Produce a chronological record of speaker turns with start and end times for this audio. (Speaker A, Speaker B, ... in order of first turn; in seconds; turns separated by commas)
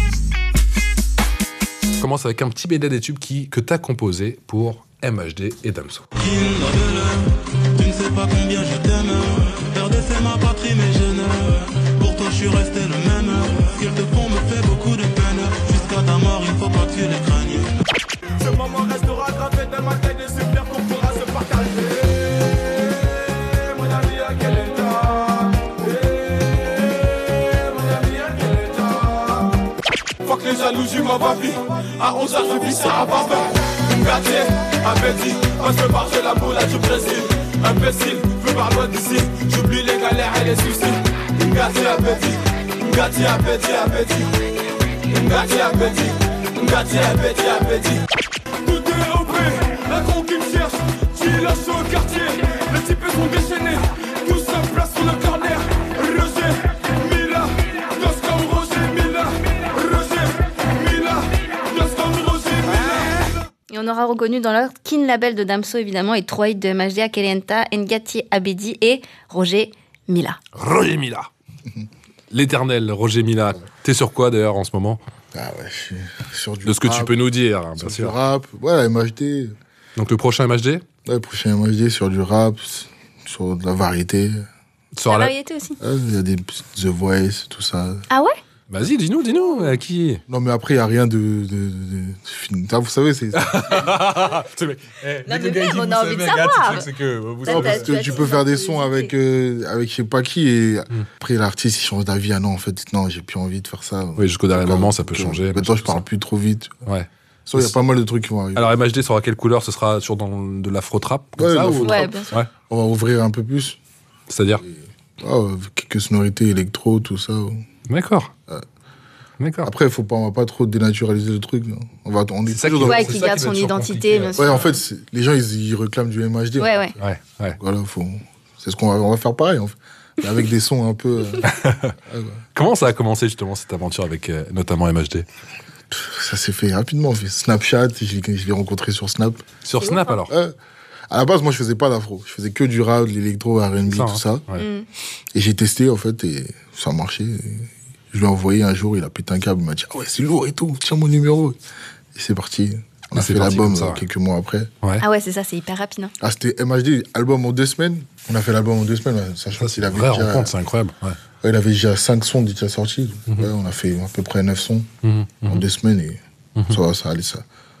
Speaker A: 2.0-6.0, Speaker B: 6.2-17.8, Speaker C: 18.4-29.6, Speaker C: 30.2-44.3, Speaker C: 45.1-48.0, Speaker C: 48.6-63.3, Speaker D: 63.7-70.4, Speaker A: 70.5-71.3, Speaker A: 72.3-75.0, Speaker E: 75.3-77.2, Speaker A: 76.6-78.1, Speaker E: 77.8-79.5, Speaker A: 80.0-80.8, Speaker E: 81.0-84.4, Speaker A: 84.9-85.3, Speaker D: 85.1-85.8, Speaker E: 85.8-88.0, Speaker D: 88.1-88.4, Speaker A: 88.7-90.2, Speaker E: 90.3-94.0, Speaker A: 93.3-98.3, Speaker D: 95.2-96.9, Speaker D: 97.4-99.1, Speaker E: 97.5-106.8, Speaker A: 104.2-106.0, Speaker A: 106.8-107.8, Speaker E: 107.5-108.7, Speaker A: 108.5-112.5, Speaker E: 111.4-113.8, Speaker D: 111.8-112.3, Speaker A: 114.3-114.6, Speaker E: 114.6-117.6, Speaker A: 117.9-118.3, Speaker A: 119.4-119.7, Speaker E: 119.6-123.2, Speaker A: 122.5-124.7, Speaker D: 122.8-124.6, Speaker E: 124.4-126.9, Speaker D: 126.6-126.9, Speaker A: 127.0-127.6, Speaker E: 127.6-131.5, Speaker A: 131.4-131.9, Speaker E: 132.1-132.4, Speaker A: 132.5-135.2, Speaker E: 135.9-139.4, Speaker A: 139.6-140.3, Speaker D: 139.8-140.1, Speaker E: 140.3-140.5, Speaker E: 141.1-144.4, Speaker A: 143.9-144.7, Speaker D: 144.6-144.9, Speaker E: 145.3-151.6, Speaker E: 152.1-154.7, Speaker A: 153.1-154.0, Speaker D: 155.0-156.1, Speaker E: 156.2-160.5, Speaker A: 159.6-161.2, Speaker E: 161.4-164.9, Speaker A: 165.0-165.6, Speaker E: 165.5-167.4